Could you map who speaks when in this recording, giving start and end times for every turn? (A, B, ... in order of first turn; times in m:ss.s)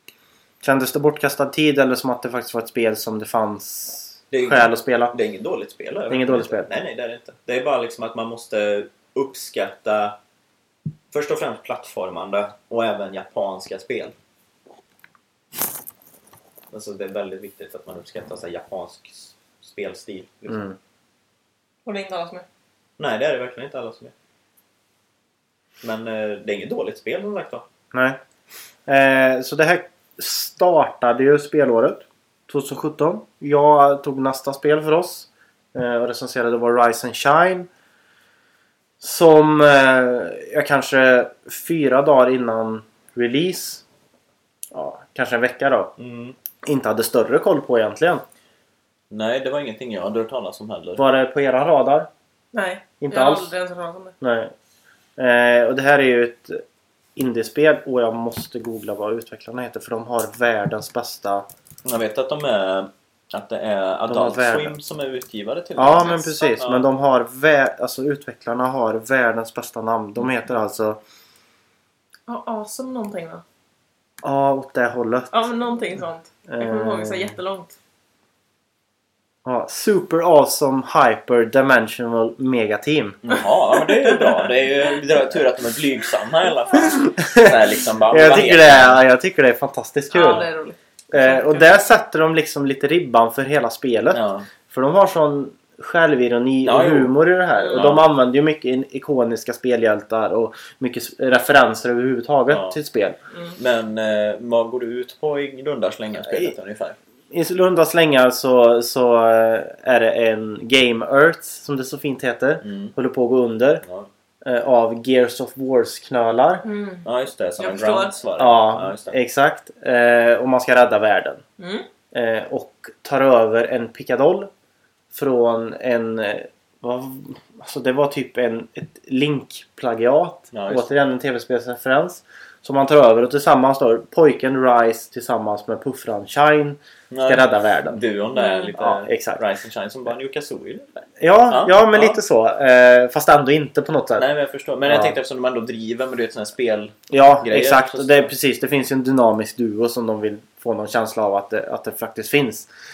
0:00.6-0:05.1 A
0:04.3-0:10.2 B
0:06.1-0:06.7 A
0:11.1-0:14.2 B
0:16.7-0:20.6 B
0:20.5-0:20.8 A
0:21.8-0:22.4 C
0:23.0-0:24.1 B
0:25.8-0:27.7 B
0:27.9-0:28.2 A
0:28.9-0:37.7 A
0:39.0-0:43.8 A
0:44.7-0:45.9 A
0:46.0-0:46.4 B
0:46.6-0:48.2 A
0:49.1-0:51.0 B
0:51.0-0:52.1 A
0:52.5-0:54.2 C
0:53.0-0:53.5 A
0:54.2-0:54.5 A
0:55.2-0:56.6 A
0:57.2-1:01.5 A
1:01.8-1:06.9 B
1:04.1-1:04.8 A
1:05.8-1:11.0 A
1:06.0-1:06.5 C
1:12.3-1:13.4 C
1:14.2-1:15.5 A
1:15.3-1:17.8 C
1:16.5-1:17.4 A
1:19.4-1:23.2 A
1:23.3-1:29.0 B
1:24.0-1:24.3 C
1:27.0-1:30.5 A
1:30.1-1:31.7 C
1:31.1-1:43.2 A
1:34.1-1:34.5 B
1:36.6-1:37.2 B
1:37.6-1:37.8 C
1:37.7-1:38.1 B
1:42.5-1:42.8 B
1:43.6-1:47.0 B
1:46.2-1:46.5 A
1:47.3-1:53.8 A
1:52.6-1:53.0 B
1:53.8-1:54.1 B
1:54.4-1:56.6 A
1:56.6-1:57.1 C
1:57.0-1:59.2 B
1:57.6-1:58.2 C
1:58.4-2:01.4 A
2:01.6-2:01.9 C
2:02.1-2:04.5 A
2:05.1-2:18.0 A
2:10.5-2:10.9 B
2:17.1-2:22.2 B
2:18.4-2:18.7 C
2:18.8-2:19.4 A
2:21.2-2:24.3 A
2:24.2-2:28.3 B
2:24.9-2:25.2 A
2:27.1-2:32.7 A